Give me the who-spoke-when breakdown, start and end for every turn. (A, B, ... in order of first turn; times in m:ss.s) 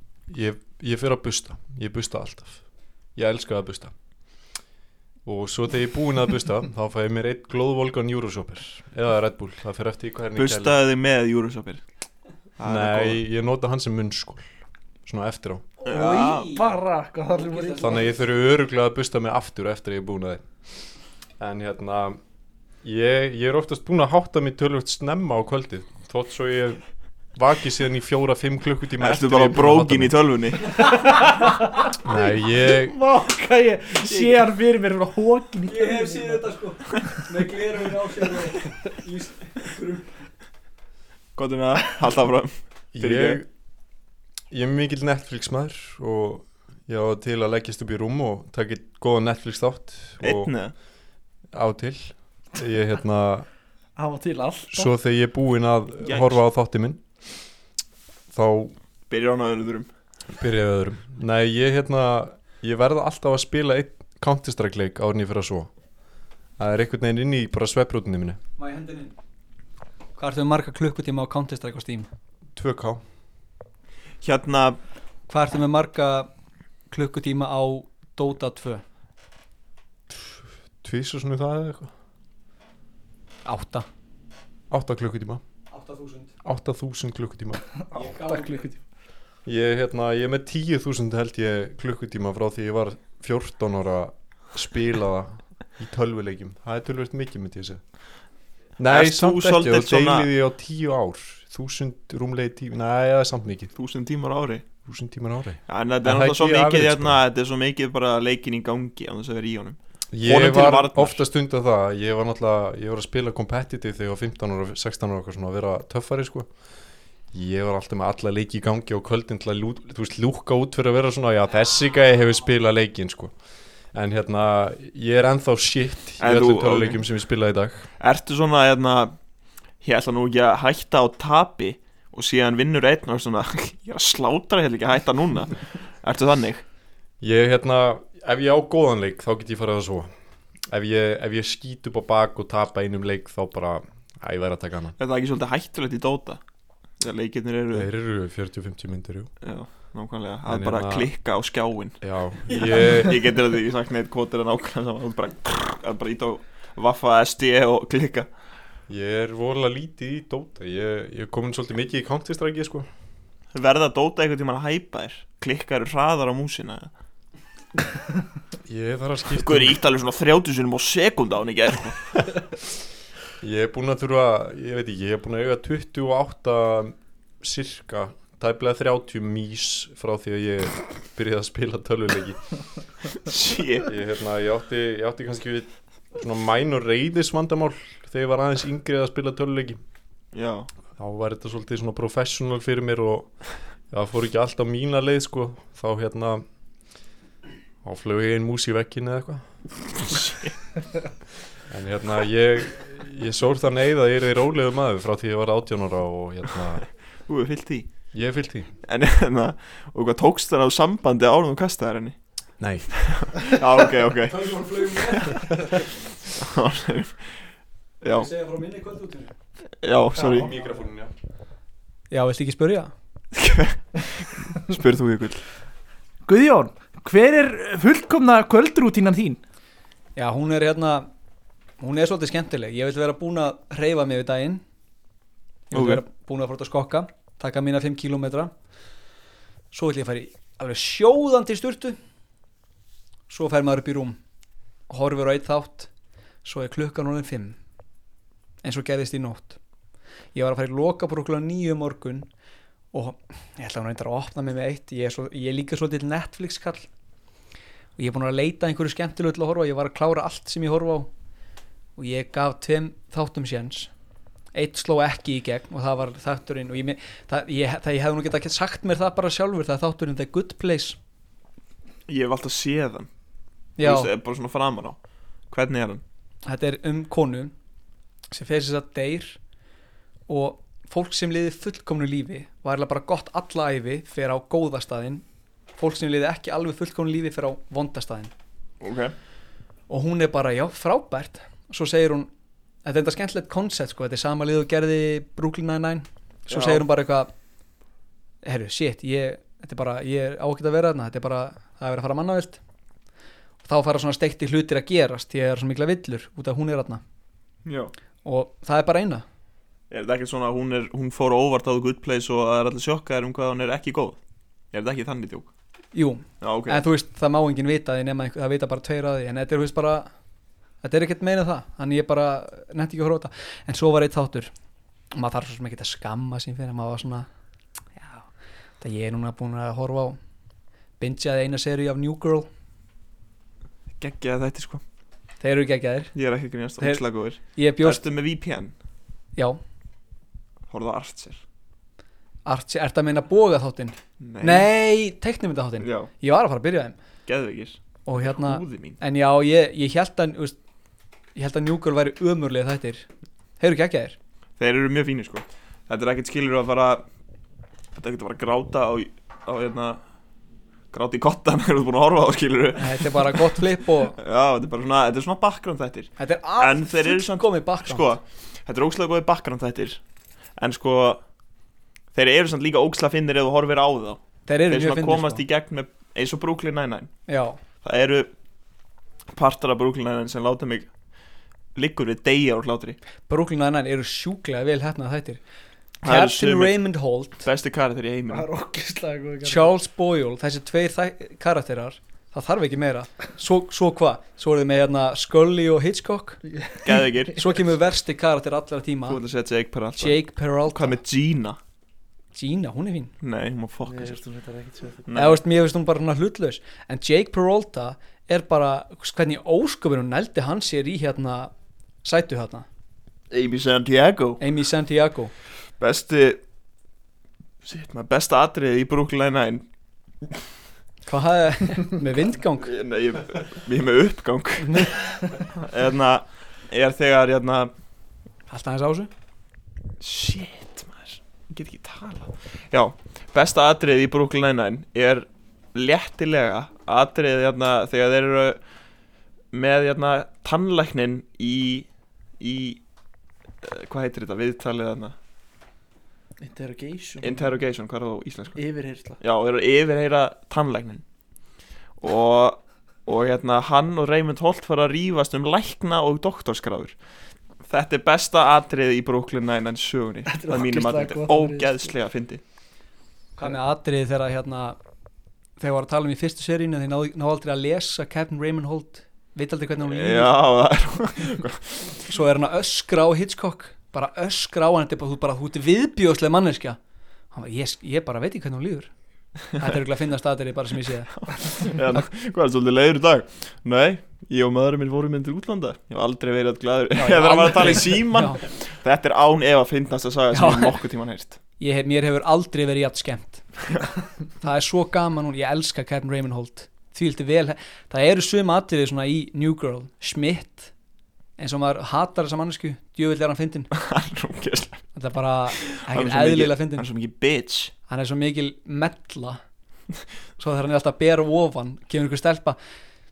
0:00.3-0:02.6 A
0:03.1-0:03.9 A
0:05.2-0:10.7 A
0:10.4-0:11.8 B
0:12.6-0:13.2 B
0:12.6-0:14.5 A
0:15.0-0:15.7 A
0:15.8-0:16.7 C
0:15.9-0:16.5 B
0:15.9-0:18.1 D
0:17.3-0:18.2 C
0:17.8-0:20.4 A
0:21.4-0:22.2 A
0:22.8-0:26.8 A
0:27.3-0:30.2 A
0:29.0-0:30.7 B
0:31.0-0:31.5 D
0:32.0-0:33.0 A
0:32.7-0:36.5 D
0:34.0-0:34.4 C
0:35.6-0:40.1 C
0:41.4-0:43.4 B
0:42.9-0:43.5 A
0:44.5-0:50.5 A
0:50.2-0:50.7 B
0:51.5-0:53.5 A
0:54.0-0:54.9 D
0:54.7-0:57.0 A
0:56.0-0:56.4 B
0:58.3-0:58.7 A
0:59.1-0:59.9 B
1:00.3-1:05.7 A
1:06.6-1:08.4 A
1:08.6-1:09.1 C
1:10.2-1:12.1 C
1:12.5-1:13.0 A
1:14.2-1:14.8 B
1:15.3-1:16.3 C
1:16.9-1:18.8 C
1:20.1-1:21.9 A
1:23.4-1:23.8 C
1:24.7-1:25.4 A
1:25.7-1:26.3 C
1:26.4-1:27.6 A
1:27.9-1:28.8 D
1:27.9-1:28.6 C
1:29.4-1:37.8 A
1:38.8-1:43.7 A
1:38.9-1:40.3 B
1:43.8-1:44.6 B
1:44.8-1:47.2 A
1:45.7-1:51.2 B
1:50.1-1:56.5 A
1:57.3-2:03.3 A
2:03.9-2:07.9 A
2:06.2-2:07.0 B
2:08.0-2:09.1 B
2:09.8-2:16.6 B
2:17.2-2:20.1 A
2:20.7-2:25.0 A
2:25.0-2:26.4 B
2:27.0-2:27.9 B
2:27.7-2:29.3 A
2:29.4-2:32.0 B
2:30.4-2:31.1 A
2:32.0-2:33.2 A
2:32.8-2:38.3 B
2:38.9-2:42.9 A
2:43.5-2:46.9 B
2:48.6-2:49.8 A
2:49.4-2:52.0 B
2:53.4-3:02.4 A
3:03.2-3:03.9 B
3:03.8-3:09.8 A
3:10.3-3:10.7 B
3:11.0-3:13.3 A
3:13.9-3:16.4 A
3:17.8-3:19.4 A
3:20.0-3:20.5 B
3:21.7-3:26.8 A
3:27.3-3:27.9 B
3:28.1-3:28.7 A
3:28.8-3:32.2 B
3:32.6-3:33.1 A
3:32.9-3:35.4 B
3:34.3-3:35.8 C
3:36.4-3:37.3 B
3:38.0-3:38.3 B
3:38.1-3:39.3 C
3:39.8-3:40.5 B
3:40.2-3:41.1 A
3:42.1-3:42.9 C
3:43.3-3:45.4 B
3:46.2-3:49.4 D
3:50.2-3:51.1 C
3:51.8-3:54.6 C
3:55.7-3:58.5 C
3:55.7-3:56.0 B
3:59.7-4:02.0 C
4:03.3-4:04.2 C
4:04.9-4:05.9 C
4:06.4-4:07.6 C
4:08.6-4:09.6 C
4:10.3-4:12.3 C
4:12.9-4:16.9 C
4:18.0-4:21.1 C
4:22.0-4:23.9 C
4:24.5-4:31.0 C
4:32.1-4:33.1 B
4:33.8-4:34.1 C
4:33.8-4:35.0 B
4:35.5-4:36.0 B
4:36.4-4:37.5 C
4:38.3-4:39.4 C
4:40.3-4:45.2 C
4:45.8-4:48.3 C
4:48.8-4:49.1 B
4:49.9-4:52.3 C
4:52.8-4:57.3 C
4:56.5-4:56.8 B
4:58.4-5:02.6 C
5:03.6-5:07.0 C
5:07.6-5:07.9 B
5:08.2-5:09.2 C
5:09.9-5:14.2 B
5:14.7-5:15.5 B
5:15.9-5:20.1 C
5:16.4-5:16.8 B
5:20.8-5:24.5 C
5:25.1-5:27.3 C
5:28.8-5:30.2 C
5:31.0-5:32.5 C
5:34.0-5:34.8 B
5:35.4-5:36.1 C
5:36.1-5:38.7 B
5:36.8-5:38.0 C
5:40.7-5:41.4 B
5:42.4-5:47.0 C
5:44.2-5:44.7 B
5:45.8-5:46.1 B
5:47.2-5:49.0 B
5:48.0-5:50.6 C
5:51.4-5:53.1 C
5:53.6-5:54.2 C
5:54.6-5:57.0 B
5:58.0-6:00.0 B
6:00.9-6:03.6 B
6:02.8-6:04.2 C
6:04.2-6:10.0 B
6:06.2-6:08.1 C
6:10.6-6:11.2 B
6:12.1-6:17.1 B
6:14.5-6:15.4 C
6:17.3-6:17.6 C
6:17.8-6:18.3 B
6:19.3-6:20.9 B
6:21.7-6:23.0 B
6:23.3-6:25.4 C
6:26.0-6:26.8 B
6:26.0-6:27.4 C
6:27.4-6:28.5 B
6:28.3-6:29.7 D
6:29.4-6:36.4 C
6:36.5-6:36.9 D
6:36.8-6:37.6 B
6:37.4-6:39.2 C
6:39.1-6:41.6 B
6:40.0-6:41.0 C
6:42.3-6:43.1 C
6:43.2-6:44.2 B
6:43.8-6:45.0 D
6:45.1-6:45.4 B
6:45.1-6:51.5 C
6:52.0-6:52.6 C
6:53.3-6:54.4 B
6:54.4-6:55.3 C
6:55.8-6:56.4 B
6:57.6-6:59.6 B
7:01.1-7:02.7 C
7:02.6-7:07.7 B
7:04.6-7:04.9 C
7:08.5-7:09.1 C
7:10.0-7:18.6 B
7:19.5-7:21.9 B
7:22.4-7:22.8 B
7:23.6-7:25.1 B
7:26.4-7:27.5 D
7:27.2-7:28.7 B
7:28.6-7:29.2 D
7:29.2-7:31.0 B
7:32.0-7:36.9 B
7:37.7-7:42.4 B
7:40.3-7:41.9 D
7:43.4-7:44.8 C
7:45.6-7:50.3 C
7:49.8-7:52.0 B
7:52.1-7:56.8 C
7:57.3-7:58.9 C
7:59.6-8:01.1 C
8:01.1-8:11.4 B
8:07.0-8:08.4 C
8:10.3-8:10.8 C
8:11.6-8:13.5 C
8:14.4-8:20.7 C
8:21.4-8:23.7 C
8:23.7-8:24.8 B
8:24.9-8:26.8 C
8:25.6-8:27.7 B
8:27.9-8:29.4 C
8:30.4-8:32.6 C